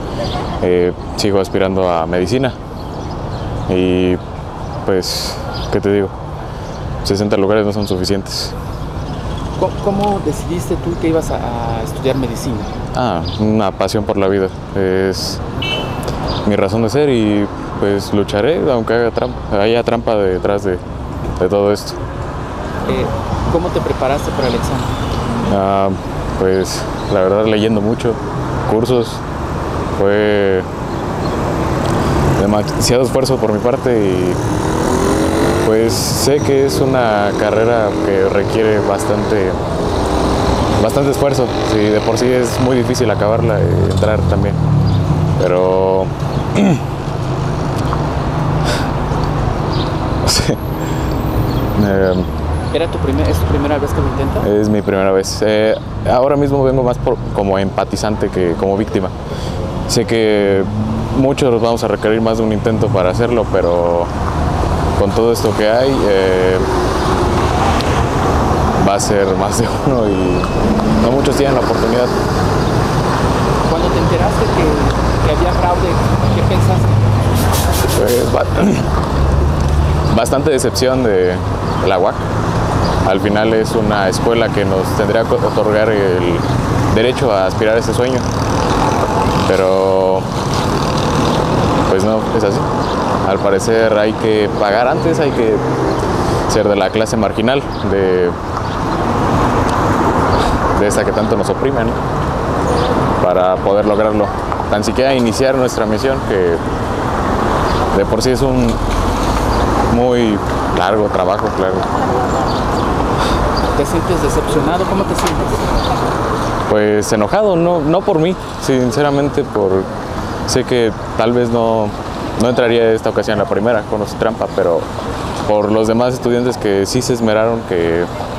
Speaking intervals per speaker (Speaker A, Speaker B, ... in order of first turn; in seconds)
Speaker A: 0.6-2.5, 3.7-4.2, 4.8-6.1, 7.0-8.5, 12.9-15.4, 16.4-20.8, 21.4-22.0, 25.5-29.2, 30.0-30.7, 32.4-34.4, 35.6-39.6, 40.8-44.6, 45.4-46.8, 50.2-50.6, 51.8-52.3, 54.4-59.1, 59.9-64.1, 65.0-66.7, 68.8-72.1, 77.9-78.9, 80.1-82.2, 83.0-88.2, 89.5-90.2, 91.9-92.7, 93.2-95.6, 96.5-98.3, 100.7-102.0, 103.2-106.6, 107.9-108.8, 109.9-111.9, 116.7-119.9, 120.5-124.9, 125.5-128.1
Speaker B: 9.6-12.7, 22.9-24.9, 52.7-54.5, 73.7-76.9, 113.8-115.8